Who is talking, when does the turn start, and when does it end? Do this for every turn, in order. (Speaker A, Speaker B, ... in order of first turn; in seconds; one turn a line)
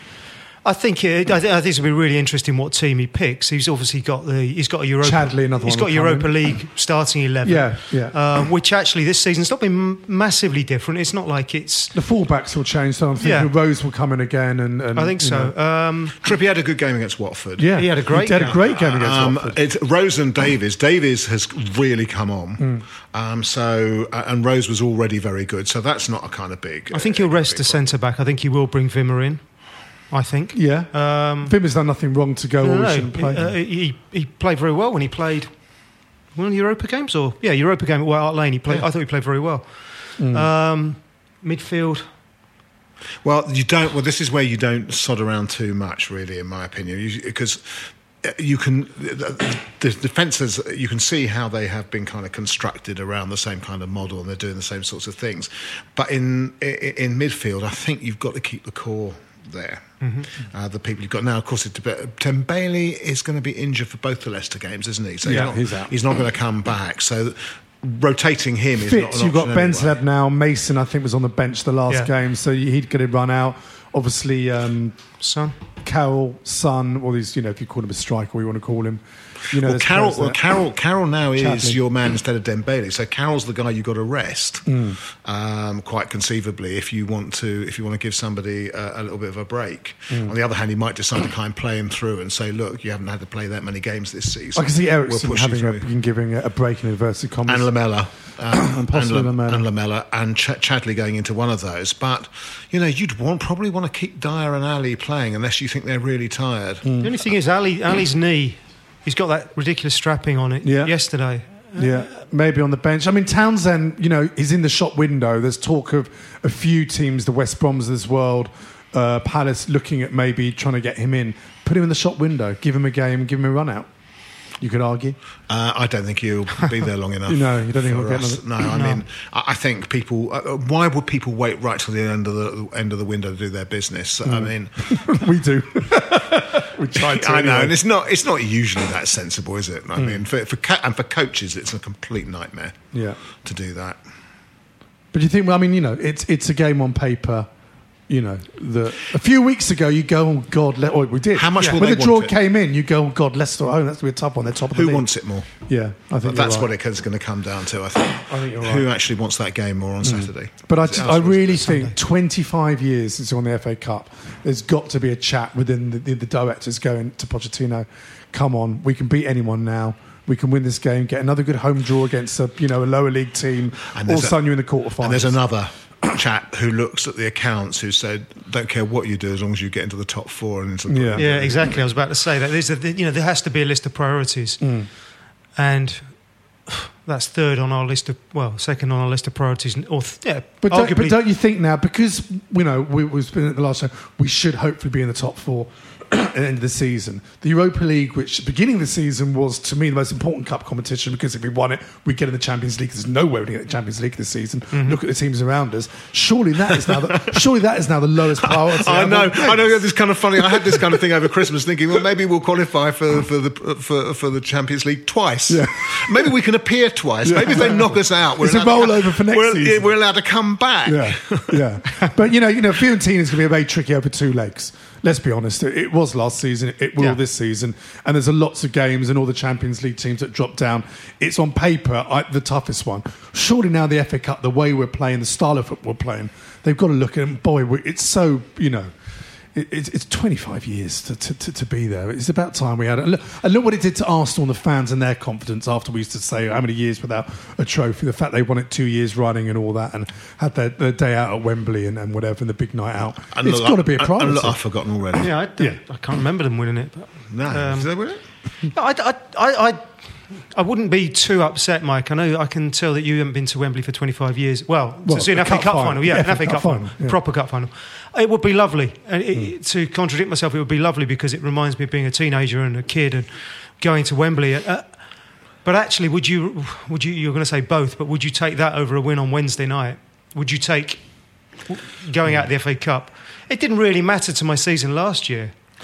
Speaker A: 0.6-11.9
Speaker B: 5.0-6.6
Speaker B: 7.4-8.3
Speaker B: 11.9-15.6
Speaker A: 13.2-13.5
Speaker A: 14.9-16.2
Speaker C: 16.2-28.0
Speaker B: 17.6-19.6
Speaker A: 17.7-18.6
Speaker B: 22.6-22.8
Speaker A: 26.9-31.7
Speaker B: 30.5-33.5
Speaker A: 32.6-42.1
Speaker B: 40.2-40.5
Speaker C: 43.2-70.0
Speaker A: 60.0-60.3
Speaker B: 65.2-66.0
Speaker A: 65.2-65.5
Speaker B: 68.8-75.2
Speaker A: 75.2-75.5
Speaker B: 75.8-80.5
Speaker C: 79.6-95.9
Speaker B: 81.3-81.8
Speaker B: 84.7-85.0
Speaker B: 94.5-99.7
Speaker C: 97.5-107.1
Speaker B: 106.8-107.1
Speaker A: 107.0-112.1
Speaker B: 110.6-125.2
Speaker C: 125.5-134.9
Speaker B: 127.2-128.5
Speaker A: 128.6-129.0
Speaker B: 134.2-137.8
Speaker C: 137.1-142.8
Speaker B: 139.9-140.2
Speaker B: 142.9-143.2
Speaker C: 143.4-144.0
Speaker B: 145.1-147.5
Speaker B: 148.1-156.9
Speaker C: 151.3-152.4
Speaker C: 154.7-161.7
Speaker B: 158.3-158.9
Speaker B: 160.0-175.5
Speaker A: 161.6-162.0
Speaker C: 173.9-181.8
Speaker B: 180.9-181.7
Speaker A: 181.1-191.2
Speaker B: 184.6-184.9
Speaker B: 190.6-211.0
Speaker A: 204.7-205.0
Speaker C: 208.5-221.6
Speaker B: 215.5-216.3
Speaker B: 217.2-219.9
Speaker B: 220.8-238.9
Speaker B: 239.5-255.8
Speaker C: 253.3-255.3
Speaker A: 255.2-258.1
Speaker C: 257.3-258.2
Speaker A: 258.7-285.5
Speaker B: 265.0-267.2